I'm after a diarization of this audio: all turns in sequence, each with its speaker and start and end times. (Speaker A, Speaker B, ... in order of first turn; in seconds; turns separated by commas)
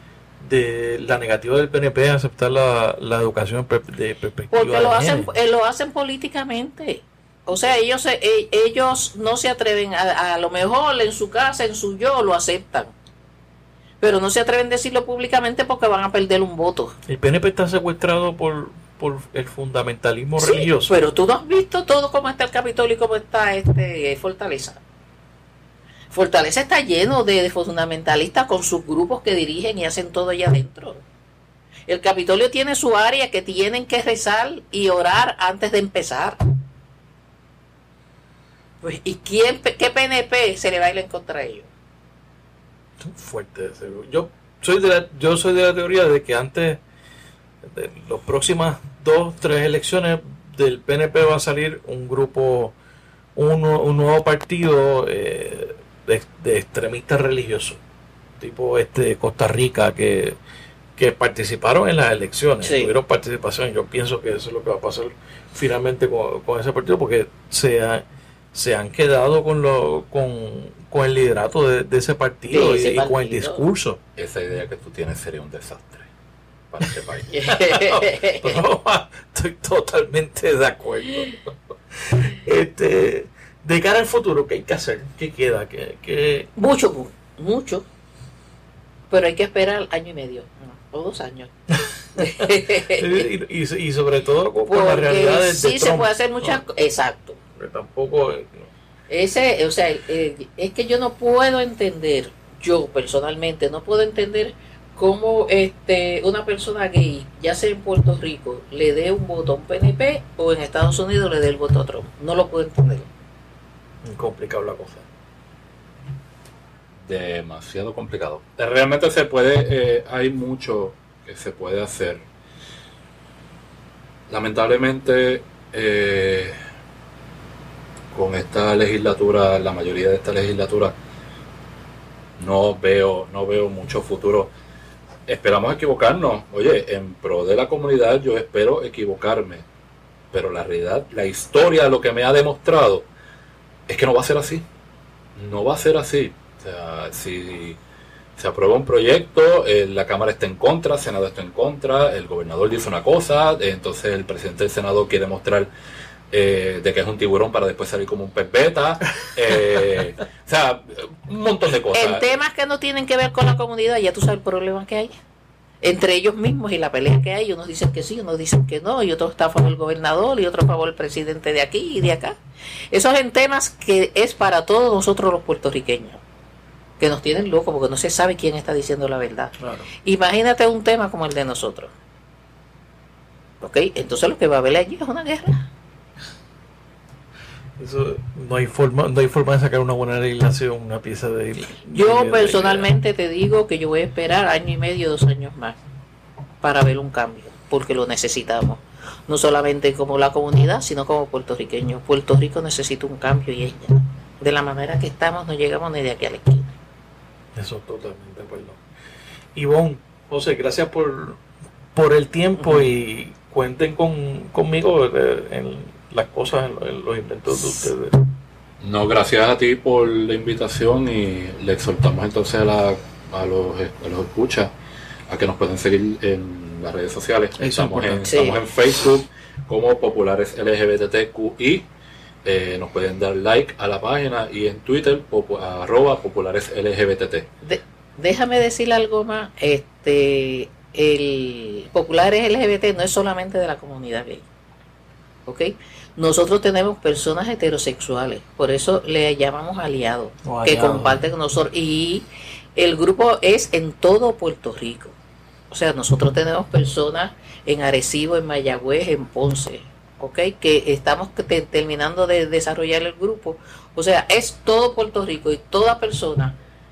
Speaker A: 0.4-5.3, Speaker B: 4.5-12.9, Speaker B: 14.0-16.9, Speaker A: 17.1-20.9, Speaker B: 20.4-24.8, Speaker B: 26.1-31.0, Speaker B: 31.9-36.4, Speaker B: 38.8-41.7, Speaker A: 43.0-46.8, Speaker A: 47.6-52.8, Speaker A: 53.4-57.8, Speaker A: 58.4-60.4, Speaker A: 61.0-74.0, Speaker B: 62.6-62.9, Speaker B: 72.5-73.6, Speaker C: 74.2-76.1, Speaker C: 76.7-77.3, Speaker B: 77.3-78.6, Speaker A: 77.5-81.5, Speaker A: 82.0-86.5, Speaker B: 86.5-87.8, Speaker B: 89.1-91.5, Speaker A: 92.1-96.6, Speaker B: 92.2-93.3, Speaker B: 94.7-97.4, Speaker A: 97.5-98.7, Speaker B: 99.1-113.1, Speaker A: 114.0-115.0, Speaker C: 117.0-122.2, Speaker C: 124.3-126.5, Speaker C: 128.1-130.9, Speaker C: 132.4-134.5, Speaker C: 135.3-139.6, Speaker C: 140.3-143.1, Speaker C: 143.9-144.6, Speaker C: 145.3-147.8, Speaker C: 148.4-155.7, Speaker C: 156.3-162.3, Speaker B: 161.9-165.1, Speaker B: 165.8-172.4, Speaker B: 172.9-176.2, Speaker B: 177.0-181.9, Speaker A: 179.6-179.9, Speaker B: 183.6-185.7, Speaker A: 187.8-192.9, Speaker B: 191.9-195.8, Speaker B: 196.6-206.7, Speaker A: 207.6-208.8, Speaker A: 209.5-211.4, Speaker A: 211.9-218.1, Speaker B: 212.6-212.9, Speaker C: 218.8-224.7, Speaker C: 225.3-231.9, Speaker A: 227.6-228.6, Speaker B: 228.2-228.6, Speaker C: 232.4-237.5, Speaker B: 237.6-244.4, Speaker B: 245.4-255.1, Speaker A: 250.4-251.2, Speaker B: 255.7-266.6